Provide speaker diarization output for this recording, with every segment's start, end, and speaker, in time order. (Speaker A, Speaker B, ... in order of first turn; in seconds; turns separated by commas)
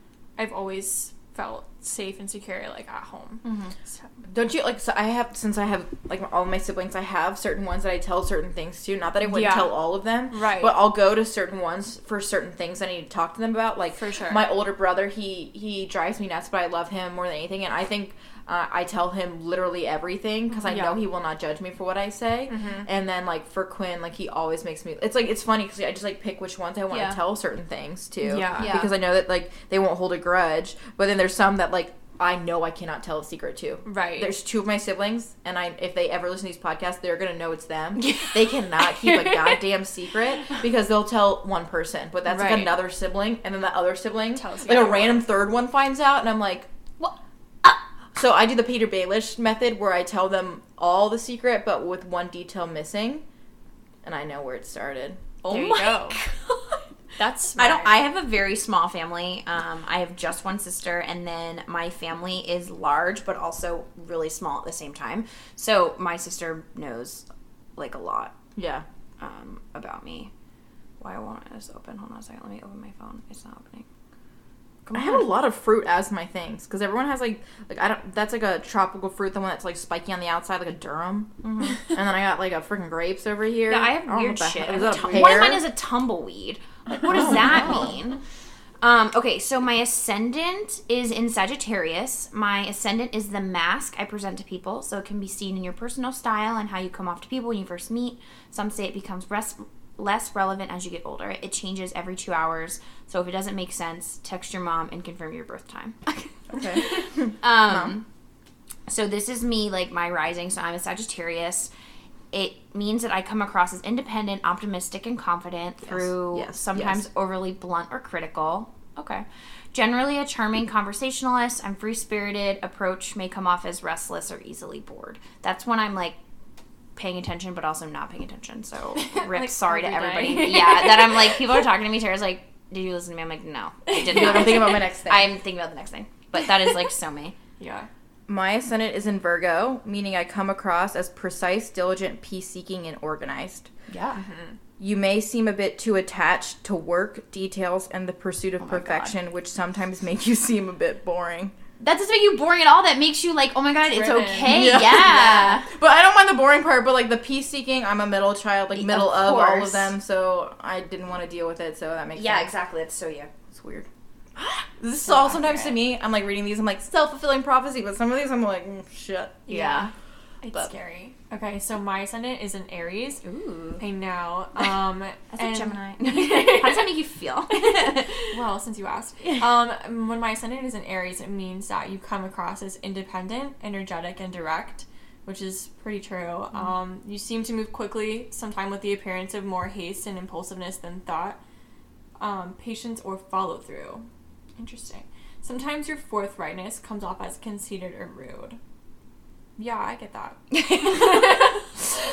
Speaker A: 0.4-4.1, Speaker B: 3.4-3.7, Speaker C: 4.3-46.7, Speaker A: 9.3-9.8, Speaker A: 10.3-10.8, Speaker A: 14.0-14.4, Speaker A: 20.6-21.0, Speaker A: 22.5-22.9, Speaker B: 26.9-27.2, Speaker A: 28.2-28.8, Speaker B: 28.6-28.9, Speaker A: 33.9-34.3, Speaker B: 38.0-39.6, Speaker A: 42.3-42.8, Speaker A: 44.4-45.3, Speaker B: 47.0-47.8, Speaker C: 48.1-53.2, Speaker C: 54.0-55.3, Speaker B: 55.4-56.8, Speaker A: 55.5-56.2, Speaker A: 57.2-58.0, Speaker B: 57.6-68.3, Speaker C: 68.6-68.8, Speaker B: 69.2-70.3, Speaker B: 71.0-73.9, Speaker B: 74.8-75.3, Speaker C: 74.9-85.6, Speaker B: 81.4-81.8, Speaker B: 83.7-88.2, Speaker C: 87.0-88.0, Speaker A: 87.1-87.8, Speaker B: 88.8-108.0, Speaker C: 106.5-107.9, Speaker B: 108.9-111.7, Speaker B: 112.3-126.2, Speaker C: 115.8-117.1, Speaker B: 127.0-137.4, Speaker A: 129.0-131.5, Speaker A: 133.9-134.7, Speaker C: 134.1-135.3, Speaker A: 137.6-137.9, Speaker C: 138.3-143.7, Speaker B: 143.9-144.2, Speaker A: 144.2-144.6, Speaker C: 144.8-151.5, Speaker B: 148.6-149.2, Speaker B: 151.8-155.7, Speaker A: 153.8-154.8, Speaker C: 154.4-162.5, Speaker B: 158.8-159.9, Speaker B: 162.2-163.3, Speaker C: 163.5-163.9, Speaker B: 164.4-165.8, Speaker C: 164.8-169.5, Speaker A: 169.5-169.9, Speaker B: 169.5-169.9, Speaker A: 170.4-173.2, Speaker B: 173.2-173.8, Speaker A: 173.8-176.9, Speaker B: 175.3-178.4, Speaker A: 178.2-191.4, Speaker A: 192.2-198.6, Speaker A: 199.6-201.6, Speaker B: 200.5-201.7